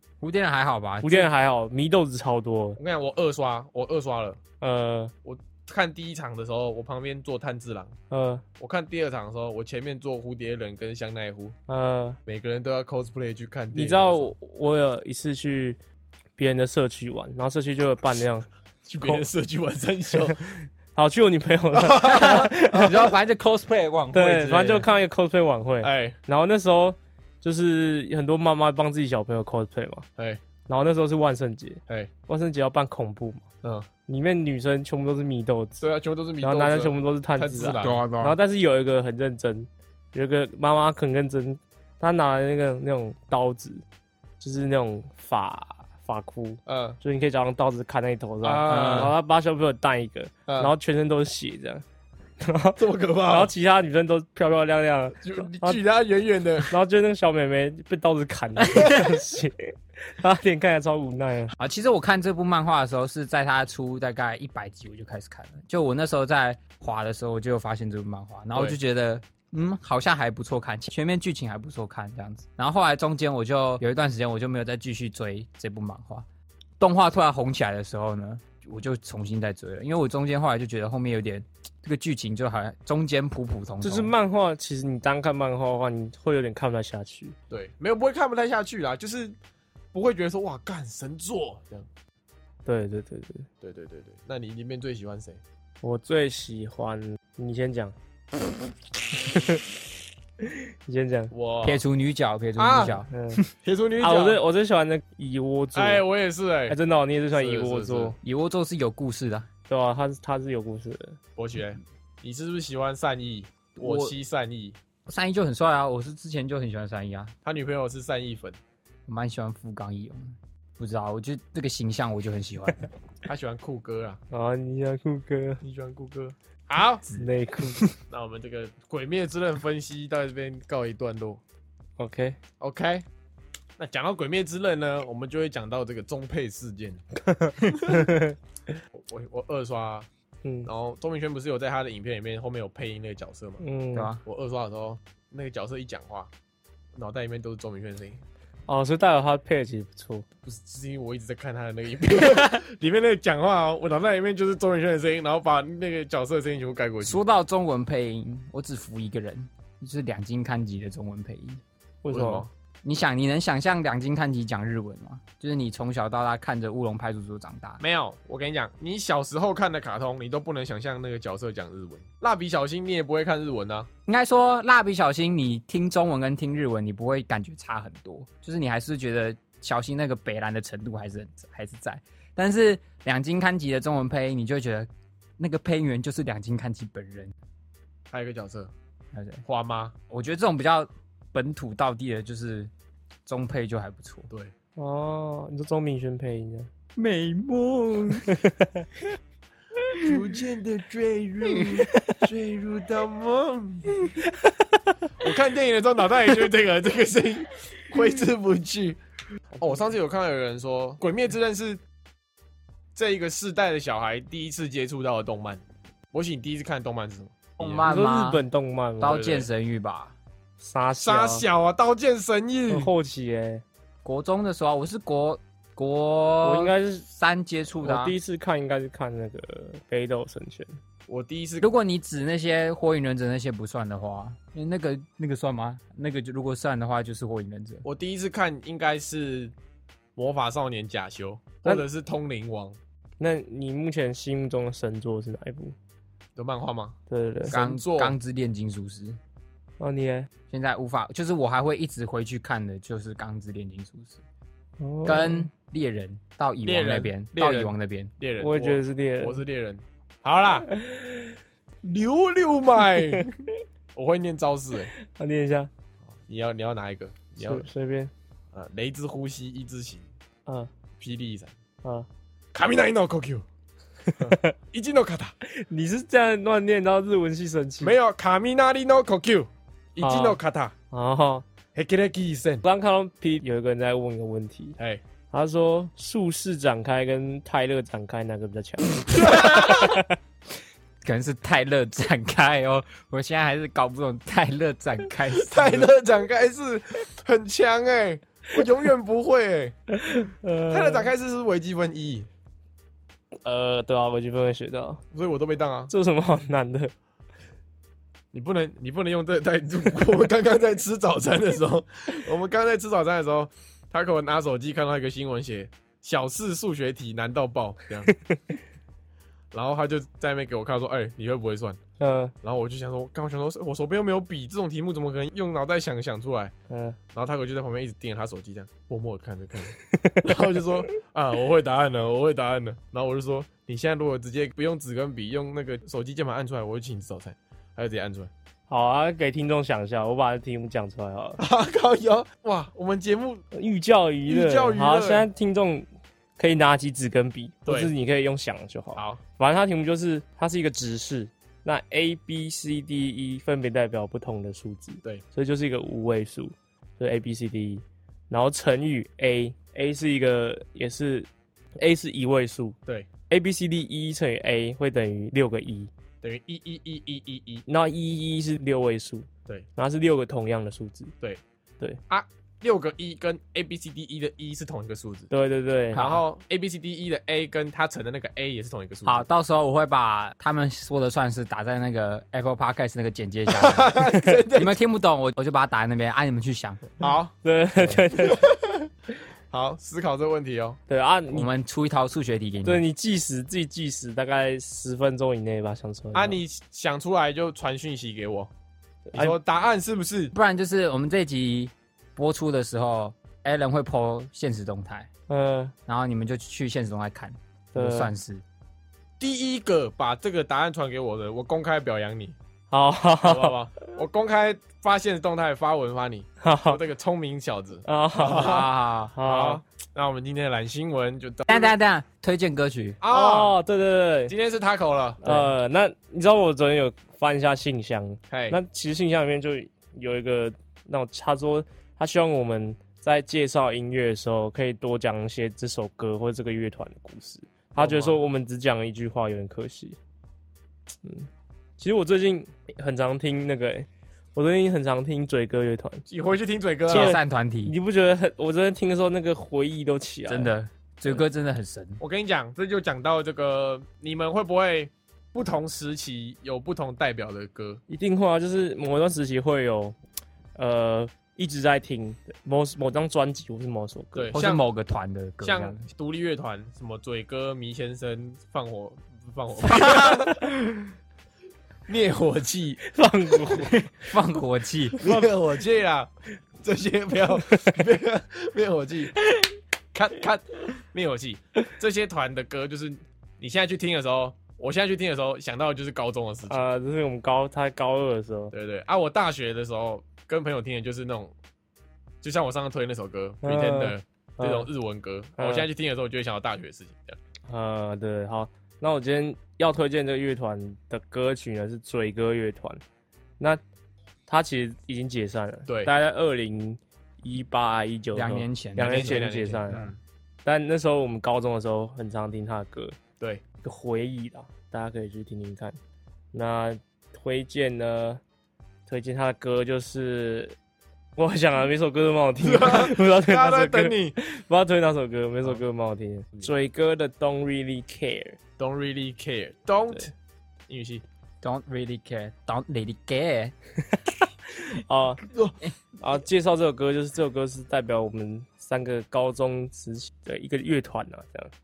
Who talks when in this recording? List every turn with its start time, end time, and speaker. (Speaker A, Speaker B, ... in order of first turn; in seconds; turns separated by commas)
Speaker A: 0.2-1.3, Speaker B: 1.0-2.8, Speaker C: 2.8-4.4, Speaker B: 4.6-5.1, Speaker C: 5.2-7.9, Speaker B: 8.1-8.4, Speaker C: 8.6-11.5, Speaker B: 11.7-12.2, Speaker C: 12.2-14.3, Speaker B: 13.7-15.8, Speaker B: 16.4-18.5, Speaker C: 18.9-20.4, Speaker B: 20.9-23.1, Speaker C: 21.7-22.9, Speaker A: 22.0-24.9, Speaker B: 24.1-30.1, Speaker C: 25.8-26.1, Speaker B: 30.7-33.4, Speaker B: 34.1-35.8, Speaker C: 35.8-38.0, Speaker B: 36.4-43.8, Speaker A: 37.8-38.4, Speaker B: 44.4-51.8, Speaker C: 46.6-47.0, Speaker C: 48.4-49.1, Speaker A: 48.7-49.1, Speaker C: 50.5-50.7, Speaker B: 52.4-55.8, Speaker C: 52.8-53.5, Speaker C: 55.2-56.7, Speaker B: 56.7-61.5, Speaker A: 58.7-59.1, Speaker A: 61.6-76.2, Speaker A: 76.8-84.1, Speaker B: 83.8-87.3, Speaker C: 87.5-89.3, Speaker C: 89.9-91.9, Speaker B: 92.7-93.5, Speaker C: 93.6-95.4, Speaker B: 95.8-97.9, Speaker B: 99.2-99.6, Speaker B: 100.4-101.3, Speaker C: 101.3-101.8, Speaker A: 101.6-103.4, Speaker C: 102.6-103.0, Speaker B: 103.1-103.4, Speaker C: 103.6-104.4, Speaker B: 104.0-106.0, Speaker C: 105.7-106.8, Speaker B: 106.7-108.2, Speaker C: 107.3-108.1, Speaker A: 108.2-109.5, Speaker B: 109.7-111.2, Speaker C: 111.3-114.8, Speaker A: 113.8-114.1, Speaker A: 115.1-117.3, Speaker C: 117.4-118.6, Speaker A: 119.1-122.9, Speaker C: 123.2-124.2, Speaker B: 124.3-125.6, Speaker C: 125.6-127.1, Speaker B: 127.2-127.9, Speaker C: 127.9-131.4, Speaker B: 132.0-132.4, Speaker C: 132.6-133.1, Speaker C: 133.8-137.0, Speaker B: 137.3-138.3, Speaker C: 137.6-138.1, Speaker C: 138.9-140.1, Speaker B: 140.4-140.7, Speaker C: 140.7-143.6, Speaker B: 143.6-144.1, Speaker A: 143.9-144.2, Speaker C: 144.2-146.3, Speaker C: 146.9-148.2, Speaker B: 148.7-150.2, Speaker C: 150.4-157.2, Speaker A: 157.0-161.6, Speaker B: 162.0-162.4, Speaker C: 162.1-162.5, Speaker A: 162.8-167.8, Speaker C: 167.8-173.9, Speaker A: 174.1-187.3, Speaker C: 188.1-188.7, Speaker A: 189.1-189.4, Speaker C: 189.4-189.9, Speaker A: 190.1-192.7, Speaker A: 193.2-194.3, Speaker B: 194.8-196.7, Speaker A: 196.9-198.4, Speaker B: 198.3-198.8, Speaker A: 199.9-200.2, Speaker C: 200.0-204.1, Speaker A: 201.5-201.8, Speaker C: 205.2-209.0, Speaker C: 209.6-211.8, Speaker C: 212.9-215.6, Speaker C: 216.1-217.9, Speaker A: 217.6-218.4, Speaker B: 217.9-219.2, Speaker A: 219.0-220.1, Speaker C: 219.0-219.5, Speaker B: 220.6-221.5, Speaker C: 221.0-222.9, Speaker B: 222.7-223.6, Speaker A: 224.0-228.2, Speaker B: 226.4-227.0, Speaker B: 227.8-230.8, Speaker C: 231.1-231.7, Speaker A: 231.6-237.8, Speaker C: 237.8-239.5, Speaker C: 240.2-242.8, Speaker B: 243.2-245.7, Speaker C: 246.4-248.1, Speaker B: 247.1-247.5, Speaker A: 247.5-249.2, Speaker B: 249.8-250.3, Speaker A: 250.5-254.2, Speaker B: 254.8-255.5, Speaker A: 255.0-258.1, Speaker C: 256.6-260.7, Speaker B: 258.4-259.4, Speaker B: 260.7-261.3, Speaker C: 261.8-263.4, Speaker C: 263.9-264.9, Speaker B: 265.0-265.7, Speaker C: 266.3-267.6, Speaker B: 267.4-268.1, Speaker C: 268.5-270.0, Speaker C: 271.0-271.5, Speaker C: 272.5-273.4, Speaker B: 274.1-274.5, Speaker C: 274.2-275.3, Speaker B: 275.5-277.9, Speaker C: 277.8-280.7, Speaker B: 280.0-280.4, Speaker B: 280.9-281.4, Speaker C: 281.7-282.6, Speaker B: 282.6-284.8, Speaker B: 285.3-290.1, Speaker C: 289.1-289.7, Speaker A: 289.2-290.0, Speaker A: 291.0-295.9, Speaker C: 295.3-299.7, Speaker B: 299.9-301.1, Speaker C: 300.7-302.3, Speaker B: 303.4-305.0, Speaker C: 305.1-305.9, Speaker B: 305.9-306.9, Speaker C: 308.3-318.1, Speaker C: 319.5-321.8, Speaker B: 322.0-322.3, Speaker C: 322.4-326.5, Speaker B: 326.7-327.0, Speaker C: 327.1-338.3, Speaker B: 330.0-330.4, Speaker B: 338.7-341.4, Speaker C: 341.4-343.4, Speaker B: 343.5-345.9, Speaker C: 344.3-345.3, Speaker B: 346.4-362.7, Speaker C: 347.6-347.9, Speaker B: 363.3-365.9, Speaker C: 366.2-367.6, Speaker B: 367.7-371.1, Speaker C: 372.1-375.3, Speaker B: 375.3-376.0, Speaker A: 375.9-376.2, Speaker C: 375.9-379.2, Speaker A: 379.0-387.0, Speaker C: 383.5-384.8, Speaker C: 387.0-387.3, Speaker B: 387.4-388.5, Speaker A: 387.8-388.0, Speaker C: 388.1-388.9, Speaker C: 389.5-390.8, Speaker B: 390.9-391.5, Speaker A: 391.3-392.8, Speaker B: 392.6-396.4, Speaker C: 396.1-398.5, Speaker B: 399.1-399.4, Speaker C: 399.1-400.3, Speaker A: 400.3-405.1, Speaker B: 405.3-405.7, Speaker A: 405.9-408.4, Speaker B: 407.7-408.1, Speaker C: 409.2-412.3, Speaker B: 412.7-413.5, Speaker C: 413.2-418.7, Speaker B: 416.4-416.8, Speaker B: 417.8-419.6, Speaker A: 418.3-419.1, Speaker C: 419.2-421.7, Speaker A: 421.5-423.0, Speaker C: 423.0-423.6, Speaker B: 423.1-424.3, Speaker C: 424.3-425.4, Speaker B: 425.2-440.0, Speaker C: 428.3-428.6, Speaker C: 437.7-438.2, Speaker B: 441.0-446.0, Speaker C: 446.1-447.2, Speaker A: 446.9-447.7, Speaker B: 446.9-450.5, Speaker A: 450.3-452.0, Speaker C: 452.0-457.8, Speaker B: 457.9-459.9, Speaker B: 460.6-464.4, Speaker C: 464.1-464.6, Speaker A: 464.3-465.8, Speaker C: 465.4-470.9, Speaker A: 469.7-470.2, Speaker B: 470.0-470.4, Speaker C: 471.9-472.9, Speaker B: 472.8-473.8, Speaker A: 473.6-475.2, Speaker C: 475.0-476.1, Speaker C: 476.6-479.2, Speaker C: 479.9-486.6, Speaker B: 486.5-488.5, Speaker C: 488.5-491.3, Speaker C: 492.2-497.2, Speaker B: 493.4-494.7, Speaker B: 495.4-495.7, Speaker B: 497.5-502.8, Speaker B: 504.3-509.9, Speaker A: 508.1-509.9, Speaker C: 508.8-510.0, Speaker B: 510.4-513.0, Speaker B: 513.6-515.8, Speaker B: 516.3-518.2, Speaker B: 518.9-520.5, Speaker B: 521.2-528.4, Speaker C: 522.4-524.1, Speaker C: 528.6-530.1, Speaker C: 530.7-531.0, Speaker A: 531.4-533.5, Speaker B: 534.5-535.3, Speaker B: 536.0-541.5